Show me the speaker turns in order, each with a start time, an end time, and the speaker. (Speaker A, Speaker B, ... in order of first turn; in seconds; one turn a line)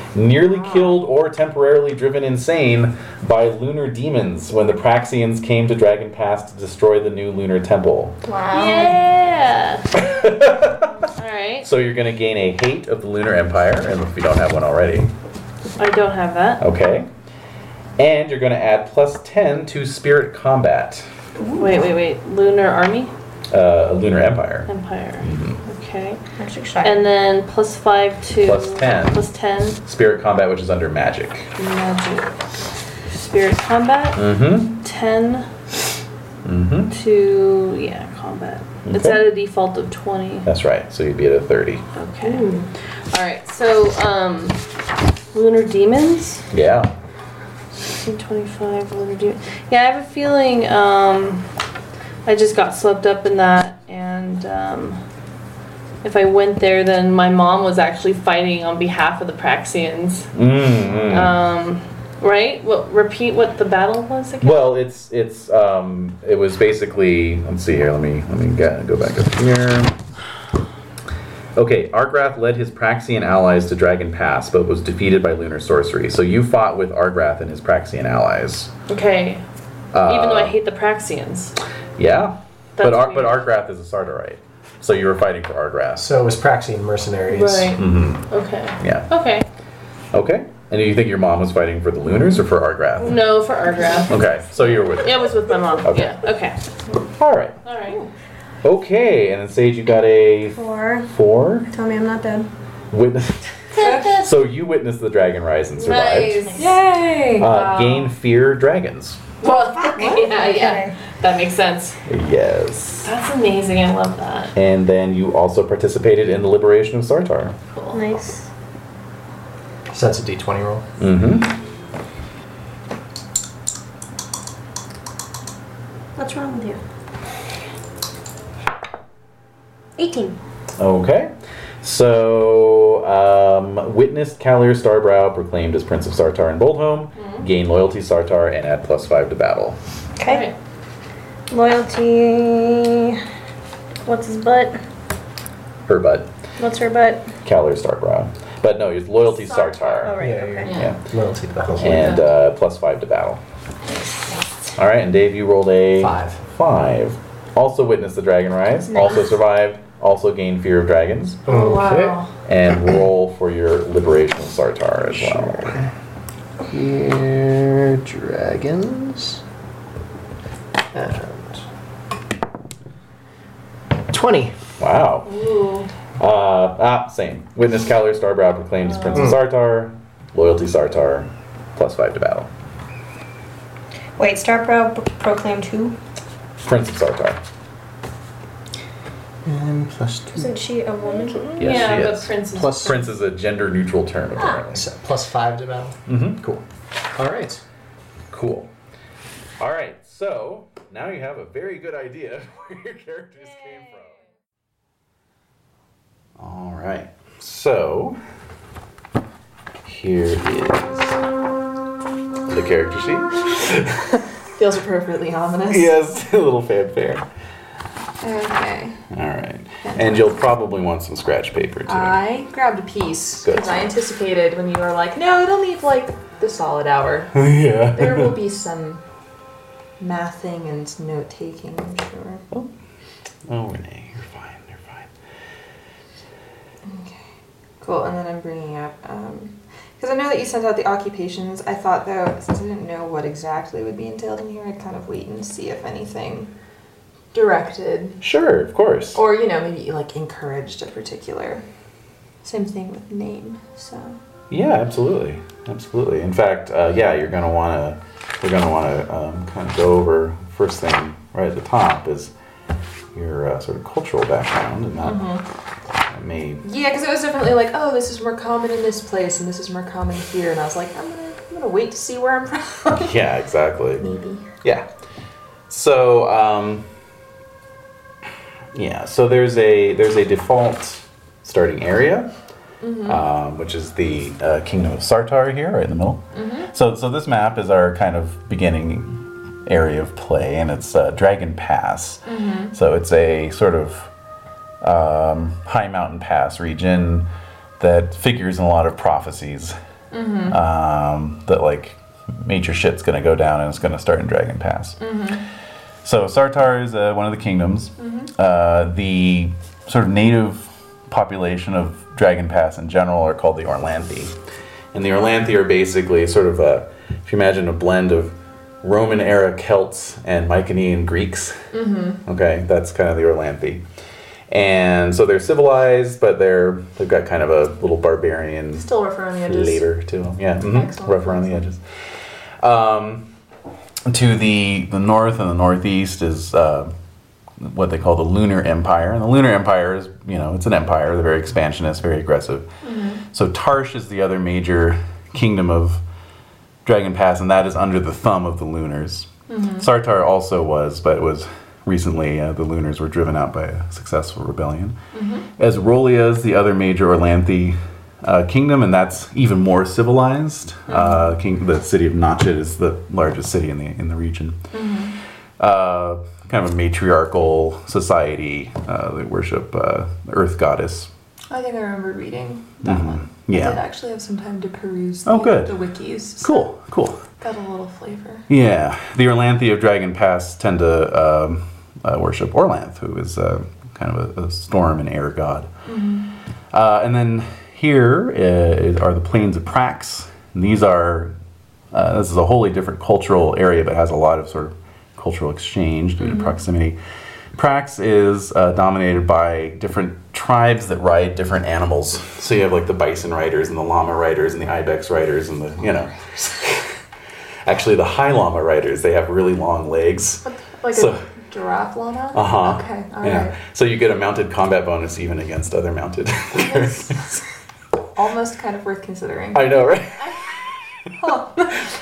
Speaker A: 0.1-8.2
Speaker B: 8.2-9.0
Speaker C: 8.5-9.8
Speaker A: 9.9-11.0
Speaker C: 11.0-11.7
Speaker A: 11.6-15.1
Speaker C: 15.8-16.6
Speaker A: 16.6-17.1
Speaker A: 18.0-21.1
Speaker B: 21.4-21.8
Speaker C: 21.6-23.1
Speaker A: 23.5-24.7
Speaker C: 24.7-26.2
Speaker A: 25.2-25.6
Speaker B: 26.4-27.1
Speaker C: 26.8-29.8
Speaker A: 28.4-29.2
Speaker A: 29.8-31.5
Speaker C: 31.6-32.3
Speaker C: 33.1-35.5
Speaker A: 34.1-34.8
Speaker A: 36.4-36.9
Speaker C: 36.9-40.5
Speaker A: 38.8-39.2
Speaker A: 40.4-41.8
Speaker C: 41.9-44.6
Speaker C: 45.3-46.4
Speaker A: 46.5-46.9
Speaker C: 47.9-51.5
Speaker C: 52.2-55.0
Speaker C: 56.0-60.3
Speaker A: 60.3-61.3
Speaker C: 61.1-64.6
Speaker A: 64.4-70.0
Speaker A: 71.5-78.7
Speaker C: 78.9-79.4
Speaker A: 79.9-80.5
Speaker C: 80.0-81.5
Speaker A: 82.0-86.1
Speaker C: 82.8-83.4
Speaker D: 86.0-87.8
Speaker C: 87.3-89.4
Speaker A: 87.8-88.3
Speaker A: 88.8-89.1
Speaker A: 90.1-93.2
Speaker C: 93.0-94.1
Speaker A: 94.1-96.2
Speaker C: 95.0-96.5
Speaker A: 97.2-97.6
Speaker C: 97.6-98.0
Speaker A: 98.6-101.7
Speaker B: 100.5-101.1
Speaker B: 101.7-102.5
Speaker A: 102.9-103.4
Speaker C: 103.7-104.3
Speaker E: 103.7-104.2
Speaker A: 104.0-106.6
Speaker C: 105.8-106.8
Speaker E: 106.5-107.5
Speaker A: 107.3-109.2
Speaker C: 107.4-108.1
Speaker C: 109.4-112.0
Speaker B: 109.8-110.9
Speaker A: 112.1-113.1
Speaker C: 113.0-114.5
Speaker A: 114.5-117.5
Speaker C: 117.7-118.0
Speaker B: 117.9-118.5
Speaker D: 119.9-120.8
Speaker A: 121.0-121.5
Speaker B: 126.2-126.8
Speaker B: 130.0-130.4
Speaker A: 130.8-131.3
Speaker A: 131.8-139.8
Speaker C: 137.2-137.4
Speaker B: 140.2-140.5
Speaker C: 140.2-140.5
Speaker B: 141.5-143.2
Speaker B: 144.0-144.8
Speaker A: 145.9-146.3
Speaker B: 146.6-147.3
Speaker A: 147.4-150.2
Speaker C: 149.5-149.9
Speaker B: 150.0-150.7
Speaker D: 150.2-152.2
Speaker C: 150.6-150.9
Speaker C: 151.8-152.2
Speaker A: 151.8-153.4
Speaker A: 154.8-161.4
Speaker D: 156.0-156.4
Speaker B: 158.9-159.2
Speaker C: 161.4-162.3
Speaker D: 161.5-162.2
Speaker A: 162.4-165.8
Speaker D: 165.1-165.9
Speaker D: 166.7-169.4
Speaker D: 170.9-171.6
Speaker D: 174.1-174.5
Speaker A: 174.8-175.3
Speaker C: 175.2-175.9
Speaker A: 176.2-182.5
Speaker D: 179.1-179.4
Speaker B: 184.2-185.9
Speaker A: 186.6-187.4
Speaker D: 189.4-190.6
Speaker B: 190.3-191.5
Speaker C: 191.6-193.0
Speaker A: 191.6-194.8
Speaker D: 192.5-192.9
Speaker D: 194.7-196.6
Speaker A: 196.1-196.4
Speaker D: 197.1-197.6
Speaker A: 198.3-198.7
Speaker A: 199.6-204.2
Speaker A: 206.4-208.2
Speaker A: 209.8-211.2
Speaker A: 212.5-214.1
Speaker E: 214.6-215.9
Speaker A: 215.7-217.2
Speaker E: 218.2-219.0
Speaker A: 219.1-222.2
Speaker E: 219.8-220.4
Speaker E: 221.8-229.0
Speaker A: 223.4-223.9
Speaker A: 227.3-228.4
Speaker E: 230.0-232.4
Speaker A: 233.5-235.1
Speaker E: 236.8-237.2
Speaker E: 237.8-246.5
Speaker E: 247.3-248.2
Speaker A: 248.2-249.2
Speaker E: 249.1-251.6
Speaker E: 252.4-254.2
Speaker A: 254.5-262.3
Speaker A: 263.1-265.3
Speaker E: 265.0-265.4
Speaker A: 266.1-266.6
Speaker E: 266.6-273.2
Speaker A: 272.9-274.1
Speaker E: 274.0-274.4
Speaker A: 275.7-276.9
Speaker A: 278.7-282.3
Speaker E: 282.8-283.2
Speaker A: 283.0-294.1
Speaker E: 286.3-286.7
Speaker E: 292.2-292.7
Speaker A: 294.8-297.3
Speaker A: 297.8-299.8
Speaker E: 300.1-300.6
Speaker A: 300.5-305.0
Speaker E: 305.0-305.4
Speaker A: 306.0-314.3
Speaker E: 308.0-308.3
Speaker A: 314.9-321.7
Speaker E: 321.7-322.2
Speaker A: 322.2-323.8
Speaker A: 324.5-331.8
Speaker E: 328.7-329.8
Speaker E: 330.6-331.6
Speaker A: 332.6-333.3
Speaker A: 334.1-336.9
Speaker A: 337.6-342.7
Speaker E: 342.8-343.2
Speaker A: 343.3-346.0
Speaker A: 346.8-354.9
Speaker E: 349.5-349.9
Speaker E: 355.1-355.5
Speaker A: 355.6-364.6
Speaker E: 360.9-361.3
Speaker E: 364.7-365.1
Speaker A: 365.6-371.1
Speaker E: 371.5-376.7
Speaker A: 372.8-373.8
Speaker A: 375.2-375.7
Speaker A: 376.4-377.2
Speaker E: 377.4-378.4
Speaker A: 378.5-385.7
Speaker E: 385.9-386.3
Speaker A: 386.7-391.3
Speaker A: 391.9-397.0
Speaker E: 396.2-396.5
Speaker A: 397.5-406.9
Speaker A: 407.6-411.2
Speaker E: 410.4-413.6
Speaker A: 412.3-417.4
Speaker E: 416.5-417.2
Speaker E: 418.1-419.8
Speaker A: 419.5-420.8
Speaker E: 421.2-421.9